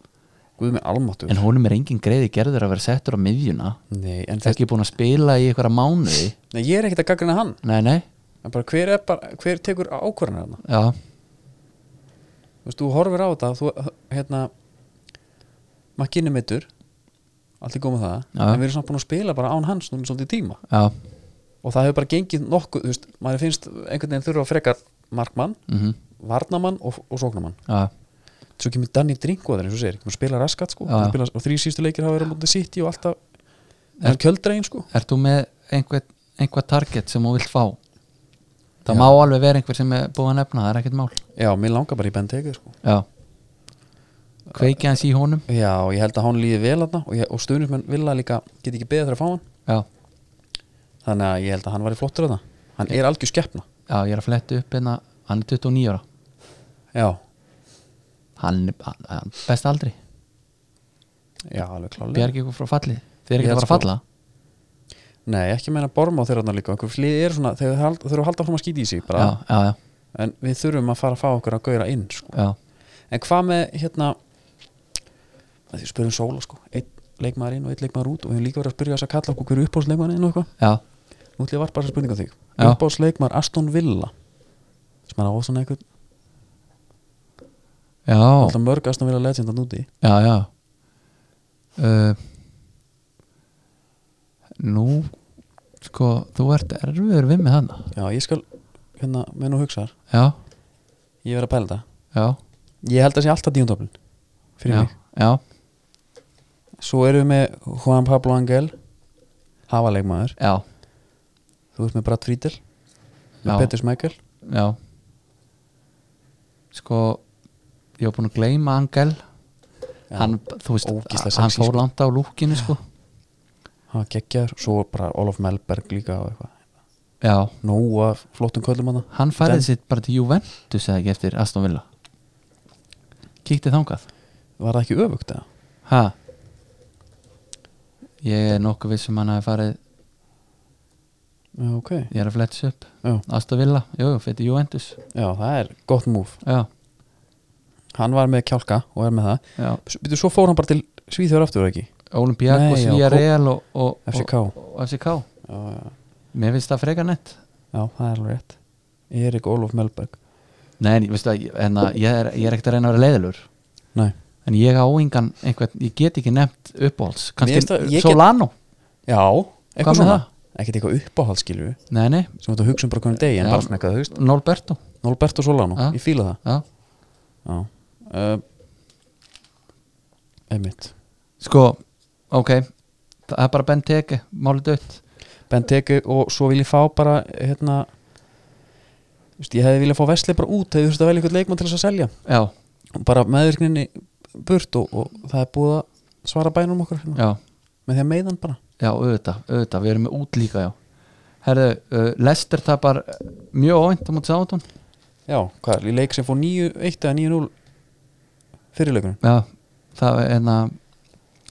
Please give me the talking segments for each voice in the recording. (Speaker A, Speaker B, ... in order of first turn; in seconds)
Speaker A: 0.6-1.4, 3.9-4.6, 6.5-7.6, 8.4-10.6, 12.6-14.5, 16.0-16.7, 17.6-20.6, 21.6-25.6, 26.2-27.6, 28.6-33.2, 34.0-34.9, 38.8-39.1, 41.4-42.8, 45.5-49.4, 51.0-53.6, 56.9-57.2, 61.5-62.3, 63.4-63.9, 65.2-69.4, 70.1-72.4, 73.1-74.2, 75.7-80.5, 81.4-84.1, 85.1-85.8, 88.4-89.9, 97.9-98.4, 98.9-99.9, 101.2-101.8, 102.8-104.0, 104.6-104.9, 106.8-108.7, 109.7-110.4, 111.7-112.6, 113.4-114.2, 120.1-121.8, 123.9-126.6, 127.6-129.7, 134.6-135.4, 141.6-142.1, 145.1-146.4, 147.9-151.9, 152.5-153.3, 154.1-154.6, 155.4-155.9, 157.7-158.6, 159.1-160.2, 167.4-168.2, 169.1-171.8, 172.4-174.1, 175.0-176.4, 177.4-178.4, 180.5-180.9, 185.5-187.9, 189.4-192.1, 192.9-197.2, 197.9-198.6, 205.3-207.5, 208.7-209.2
Speaker B: 1.3-3.8, 4.4-6.3, 7.6-8.1, 10.6-11.0, 18.3-18.6, 20.7-20.9, 25.7-25.9, 30.9-31.2, 34.9-37.8, 38.9-41.2, 44.5-45.4, 53.9-56.0, 58.4-60.0, 62.1-64.0, 69.1-69.8, 88.0-88.5, 90.0-90.5, 91.8-92.2, 94.6-95.1, 95.8-97.9, 100.1-100.3, 102.1-102.4, 104.7-105.4, 110.4-110.6, 113.5-113.7, 114.4-114.8, 116.7-117.2, 118.0-119.2, 120.2-122.8, 127.2-127.5, 129.1-131.8, 133.4-134.0, 135.8-136.1, 138.2-139.8, 142.1-145.0, 146.4-146.7, 152.1-155.2, 156.3-157.4, 160.8-163.5, 164.4-168.5, 169.8-170.2, 171.9-172.3, 173.4-174.8, 175.8-176.7, 181.4-182.7, 183.2-185.0, 192.2-192.5, 197.1-197.4, 198.8-200.7, 201.4-204.6, 209.2-210.8